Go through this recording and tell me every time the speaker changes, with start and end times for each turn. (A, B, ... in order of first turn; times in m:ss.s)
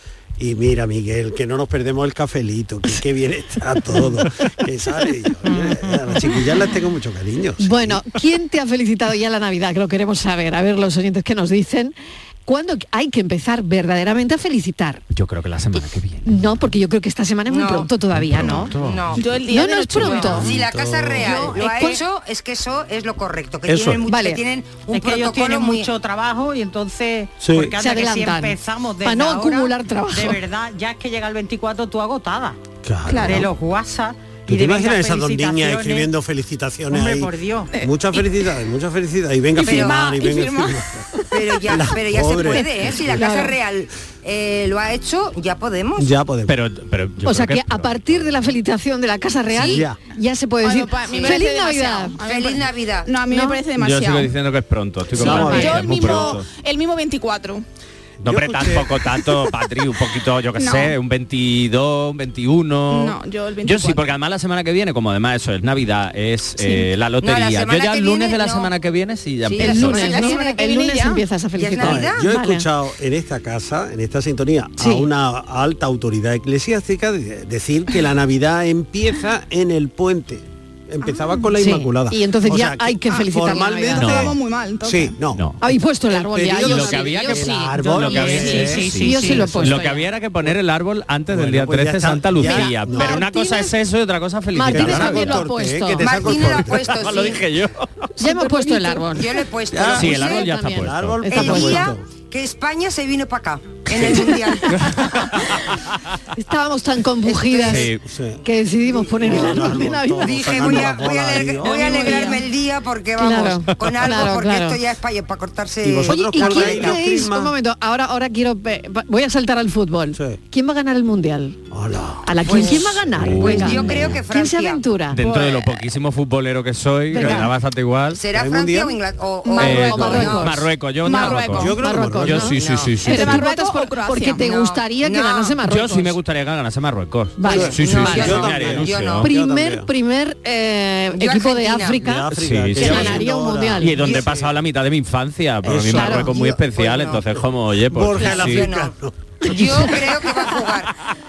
0:00.4-0:08.0 A
0:05.5-0:06.0 B
0:07.6-0:11.9 C
0:12.4-0:15.0 C
0:15.1-0:16.5 D
0:16.2-0:18.7 C
0:17.5-0:17.9 E
0:18.1-0:18.8 D
0:18.2-0:19.0 A
0:18.4-0:19.2 E
0:19.1-0:20.5 F
0:19.5-0:20.5 C
0:20.0-0:25.9 E
0:20.3-0:21.5 A
0:21.2-0:21.6 C
0:21.4-0:22.0 B
0:23.7-0:24.0 A
0:24.1-0:24.4 C
0:24.9-0:32.6 B
0:27.4-0:27.8 A
0:27.8-0:30.4 C
0:32.8-0:33.5 A
0:33.1-0:33.5 F
0:33.2-0:36.1 B
0:34.5-0:41.1 A
0:36.9-0:37.7 B
0:37.7-0:38.4 F
0:39.5-0:40.8 F
0:39.7-0:40.0 E
0:41.3-0:46.1 E
0:41.6-0:43.0 A
0:43.1-0:43.6 C
0:46.0-0:46.6 A
0:46.4-0:48.5 D
0:47.2-0:52.2 C
0:49.5-0:50.0 A
0:50.6-0:54.3 F
0:52.2-0:53.1 E
0:53.3-0:53.6 C
0:53.8-0:56.4 D
0:55.2-0:56.4 A
0:55.2-0:56.1 C
0:55.2-0:57.6 F
0:58.2-0:59.4 A
0:58.2-1:10.1 D
1:00.6-1:00.9 F
1:02.9-1:04.1 F
1:07.2-1:08.7 E
1:09.4-1:10.6 E
1:09.6-1:12.7 C
1:09.7-1:11.2 F
1:11.5-1:12.2 E
1:11.8-1:25.4 A
1:14.8-1:15.1 C
1:21.0-1:21.5 F
1:21.6-1:24.3 C
1:24.0-1:24.3 D
1:24.0-1:25.2 F
1:25.6-1:30.0 C
1:26.1-1:29.8 A
1:26.4-1:35.4 D
1:31.3-1:33.2 A
1:32.4-1:33.7 C
1:34.5-1:36.3 C
1:34.6-1:37.2 A
1:36.0-1:37.4 E
1:36.4-1:37.9 D
1:38.2-1:39.3 C
1:38.6-1:40.4 E
1:39.7-1:42.0 A
1:39.9-1:41.5 D
1:40.0-1:41.9 C
1:41.2-1:44.8 E
1:44.9-1:45.6 D
1:46.4-1:47.9 C
1:47.3-1:47.8 E
1:47.6-1:48.0 D
1:47.7-1:52.2 A
1:48.4-1:52.4 C
1:50.2-1:57.0 E
1:53.2-1:54.8 C
1:55.8-1:57.5 A
1:56.1-2:01.6 C
2:01.7-2:04.2 A
2:02.2-2:05.2 C
2:02.4-2:04.8 E
2:03.1-2:04.1 D
2:05.1-2:08.2 D
2:07.1-2:07.5 C
2:08.1-2:10.6 E
2:08.3-2:09.0 A
2:09.5-2:10.6 C
2:09.6-2:13.4 D
2:11.0-2:11.7 F
2:11.3-2:12.8 A
2:11.7-2:16.2 C
2:12.6-2:12.9 E
2:13.0-2:14.4 F
2:14.3-2:15.6 E
2:15.6-2:19.3 D
2:17.4-2:18.4 C
2:17.4-2:19.3 E
2:17.4-2:19.9 A
2:19.2-2:24.0 C
2:21.1-2:22.1 E
2:22.0-2:24.5 A
2:22.3-2:23.2 D
2:23.8-2:28.6 D
2:24.0-2:24.4 E
2:25.6-2:26.5 A
2:25.9-2:26.3 C
2:26.1-2:27.4 E
2:27.9-2:29.9 A
2:28.2-2:28.4 C
2:28.4-2:28.9 E
2:29.4-2:30.9 E
2:29.5-2:29.9 C